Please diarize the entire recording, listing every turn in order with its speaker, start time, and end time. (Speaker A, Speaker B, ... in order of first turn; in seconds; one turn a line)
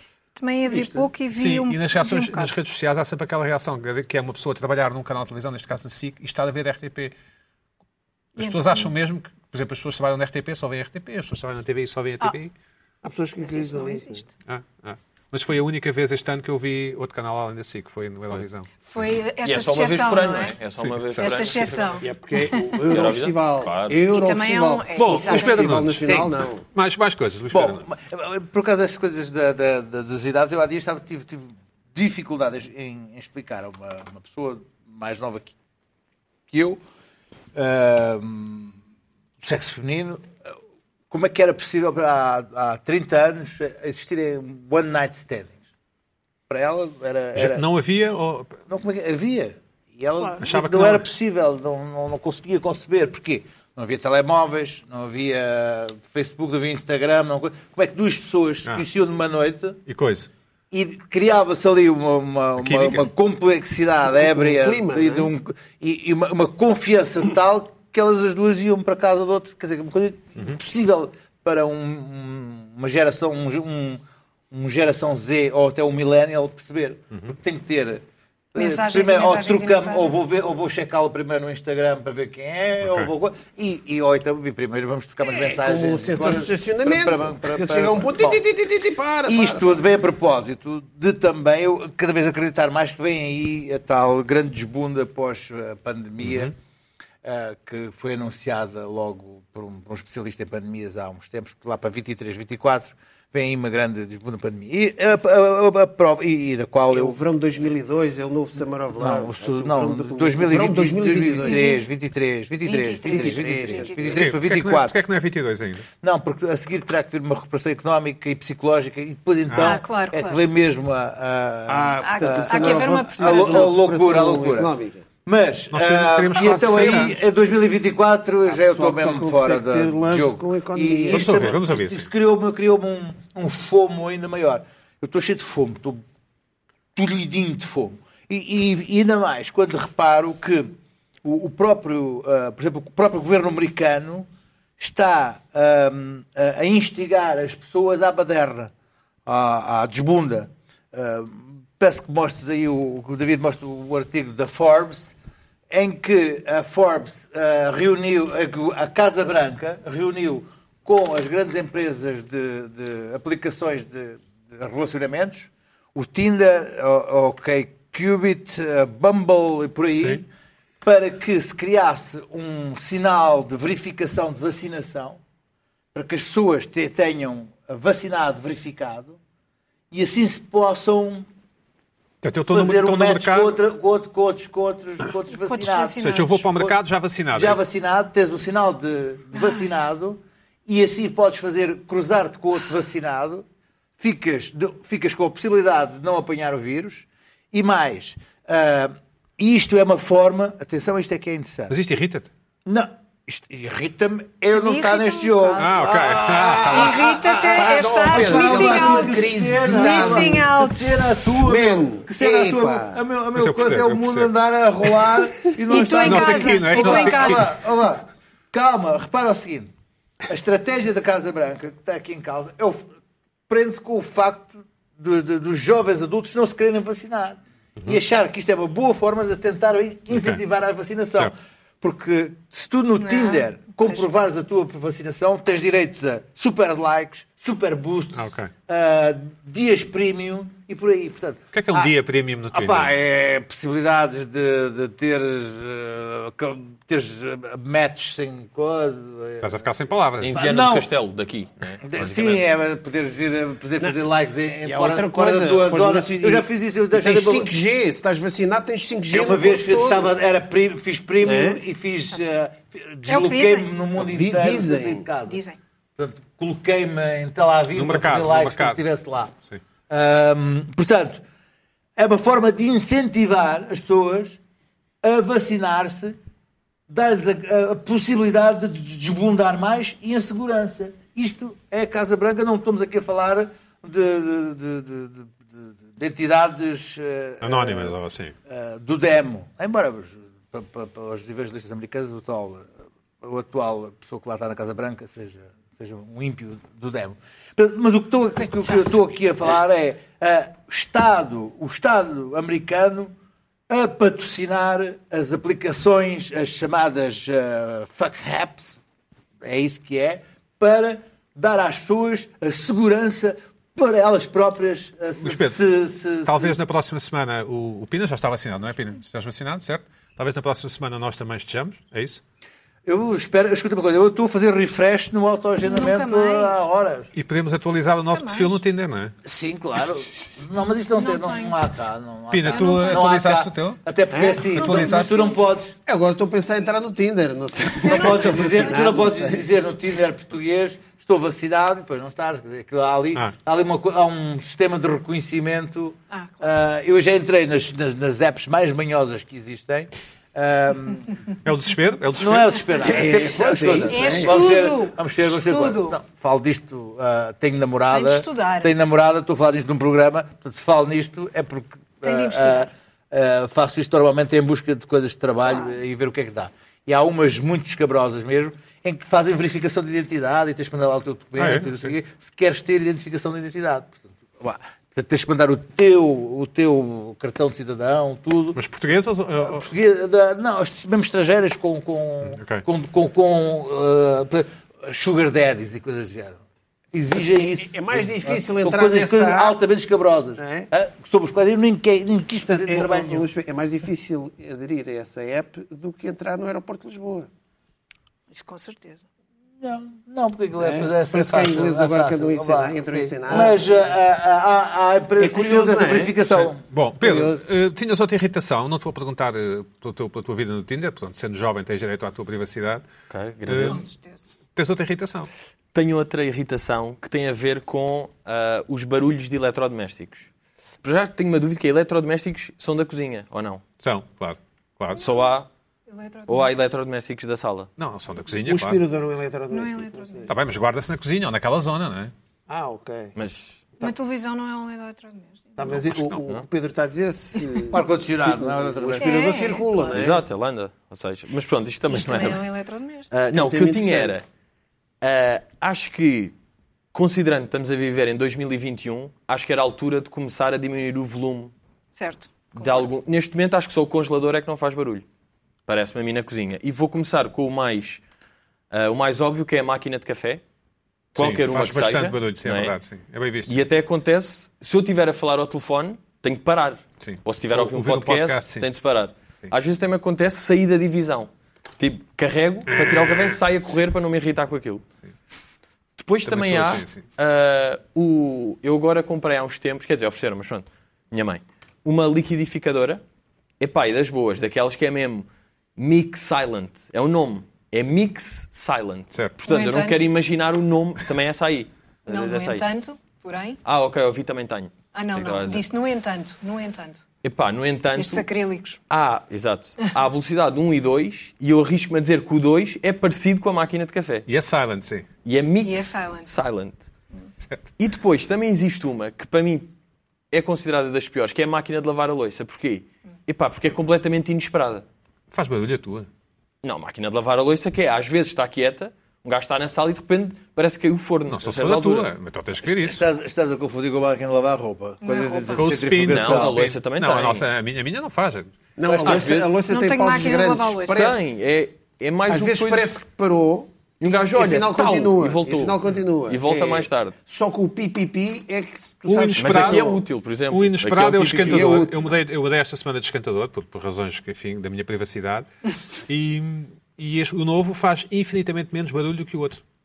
Speaker A: 0.4-2.5
Speaker B: 0.7-1.1
Speaker C: 1.3-7.1
Speaker C: 8.4-12.5
Speaker A: 8.4-8.9
Speaker B: 13.0-14.2
Speaker A: 13.4-14.3
Speaker C: 14.5-18.7
Speaker A: 18.9-20.6
Speaker D: 19.4-22.0
Speaker C: 20.8-21.6
Speaker A: 21.2-23.0
Speaker B: 22.0-26.6
Speaker D: 22.9-24.0
Speaker A: 24.1-25.8
Speaker C: 25.0-26.1
Speaker E: 25.7-26.4
Speaker C: 26.7-27.8
Speaker E: 27.5-35.5
Speaker E: 36.5-36.8
Speaker E: 37.5-38.7
Speaker E: 39.4-40.3
Speaker E: 41.1-45.6
Speaker E: 46.5-47.7
Speaker C: 47.4-48.6
Speaker E: 48.7-59.8
Speaker C: 50.4-51.1
Speaker C: 59.9-60.3
Speaker E: 60.7-78.0
Speaker C: 62.6-63.1
Speaker B: 64.1-65.3
Speaker E: 78.5-88.4
Speaker A: 78.6-80.1
Speaker C: 82.8-83.1
Speaker B: 85.3-89.7
Speaker E: 89.3-96.5
Speaker C: 96.2-96.5
Speaker E: 97.2-107.2
Speaker B: 106.9-111.7
Speaker E: 109.0-115.0
Speaker A: 111.4-111.9
Speaker A: 112.6-114.2
Speaker B: 113.0-114.2
Speaker C: 114.2-115.9
Speaker E: 116.0-124.7
Speaker C: 119.5-119.8
Speaker A: 119.6-120.4
Speaker B: 121.7-125.1
Speaker A: 122.0-123.8
Speaker E: 125.2-136.0
Speaker C: 125.7-127.2
Speaker B: 126.6-126.9
Speaker B: 128.5-131.5
Speaker C: 131.1-132.1
Speaker E: 136.9-144.3
Speaker E: 144.8-148.7
Speaker E: 149.3-155.2
Speaker E: 155.7-170.3
Speaker E: 170.8-175.2
Speaker E: 175.9-179.2
Speaker E: 179.9-181.3
Speaker C: 182.2-183.6
Speaker E: 182.5-186.8
Speaker A: 185.4-186.5
Speaker C: 186.0-187.6
Speaker E: 187.3-193.4
Speaker A: 189.3-189.7
Speaker E: 194.0-201.8
Speaker C: 201.7-202.3
Speaker E: 202.7-219.7
Speaker A: 204.5-205.7
Speaker C: 205.6-206.9
Speaker B: 206.2-210.6
Speaker A: 206.7-211.2
Speaker B: 211.3-213.0
Speaker C: 213.4-214.3
Speaker A: 215.7-217.5
Speaker C: 216.0-217.5
Speaker E: 220.3-222.9
Speaker E: 223.5-241.9
Speaker C: 230.1-230.4
Speaker A: 233.0-234.1
Speaker C: 238.2-238.5
Speaker C: 241.5-242.9
Speaker E: 242.5-249.6
Speaker C: 249.4-250.3
Speaker D: 250.2-252.4
Speaker E: 250.3-250.9
Speaker E: 251.8-257.5
Speaker B: 254.7-260.1
Speaker E: 259.1-265.4
Speaker B: 261.2-261.6
Speaker A: 263.1-263.7
Speaker B: 264.0-265.1
Speaker A: 265.2-265.6
Speaker E: 266.0-269.3
Speaker C: 267.8-268.8
Speaker E: 269.9-271.2
Speaker E: 272.0-274.4
Speaker E: 275.0-276.2
Speaker E: 276.9-288.0
Speaker C: 287.4-288.4
Speaker E: 288.5-303.1
Speaker A: 298.4-298.9
Speaker E: 303.7-308.8
Speaker E: 309.4-316.6
Speaker C: 315.2-315.6
Speaker C: 316.2-322.2
Speaker E: 322.9-327.1
Speaker A: 325.6-326.5
Speaker C: 327.1-329.1
Speaker A: 328.1-328.6
Speaker E: 329.2-335.8
Speaker A: 330.9-331.6
Speaker C: 332.3-333.8
Speaker A: 332.5-333.1
Speaker B: 334.1-334.5
Speaker C: 334.5-335.1
Speaker A: 334.6-335.4
Speaker B: 335.9-339.4
Speaker A: 337.8-339.0
Speaker E: 337.9-351.1
Speaker A: 346.1-346.5
Speaker C: 351.4-352.6
Speaker E: 352.2-378.6
Speaker B: 352.8-354.5
Speaker A: 353.9-356.0
Speaker A: 357.9-358.7
Speaker A: 362.0-362.7
Speaker A: 365.4-365.8
Speaker C: 371.4-371.9
Speaker C: 378.6-379.7
Speaker E: 379.4-386.4
Speaker C: 382.2-382.6
Speaker E: 386.9-393.3
Speaker B: 387.4-389.6
Speaker B: 390.4-390.7
Speaker B: 392.5-397.3
Speaker A: 398.3-399.1
Speaker E: 399.6-406.6
Speaker B: 400.6-403.8
Speaker B: 405.2-406.1
Speaker C: 406.3-412.8
Speaker B: 407.0-407.4
Speaker D: 413.1-413.9
Speaker C: 413.5-413.8
Speaker A: 413.6-414.2
Speaker C: 414.6-415.3
Speaker D: 415.7-420.3
Speaker D: 420.8-423.6
Speaker C: 423.8-425.0
Speaker D: 425.0-425.5
Speaker A: 425.0-425.3
Speaker A: 425.9-426.5
Speaker D: 426.3-427.7
Speaker C: 427.8-428.8
Speaker B: 428.3-430.3
Speaker A: 429.5-430.3
Speaker C: 430.3-432.1
Speaker B: 432.5-433.1
Speaker D: 433.2-433.6
Speaker A: 433.8-435.7
Speaker B: 435.6-440.2
Speaker C: 435.7-436.2
Speaker E: 437.7-439.4
Speaker A: 439.0-440.1
Speaker D: 439.9-442.5
Speaker A: 441.9-443.1
Speaker D: 443.1-444.2
Speaker B: 443.3-444.1
Speaker D: 445.0-446.4
Speaker D: 446.9-451.5
Speaker A: 452.0-452.9
Speaker D: 452.6-455.1
Speaker D: 455.7-458.0
Speaker D: 458.7-460.4
Speaker D: 461.1-462.7
Speaker C: 461.2-463.7
Speaker D: 463.5-474.9
Speaker C: 467.0-468.7
Speaker C: 472.7-473.4
Speaker D: 476.0-483.0
Speaker C: 476.3-477.0
Speaker D: 483.6-492.7
Speaker C: 489.1-489.4
Speaker A: 489.5-490.1
Speaker A: 492.1-493.6
Speaker D: 493.6-495.6
Speaker A: 494.9-497.0
Speaker D: 497.2-498.3
Speaker A: 497.9-498.8
Speaker D: 498.9-504.3
Speaker C: 504.3-505.1
Speaker D: 505.2-506.9
Speaker A: 505.6-506.3
Speaker D: 507.8-509.7
Speaker D: 510.3-514.9
Speaker C: 515.3-516.1
Speaker D: 516.6-522.1
Speaker C: 521.3-523.0
Speaker E: 522.6-526.6
Speaker A: 525.0-525.7
Speaker C: 525.5-528.5
Speaker D: 526.0-527.5
Speaker B: 528.8-531.1
Speaker E: 528.9-529.4
Speaker D: 529.0-529.5
Speaker A: 529.6-531.1
Speaker D: 530.9-533.0
Speaker B: 532.3-533.7
Speaker D: 534.0-537.1
Speaker B: 534.3-540.0
Speaker C: 539.1-540.0
Speaker D: 539.4-541.9
Speaker C: 540.5-549.6
Speaker B: 541.3-542.1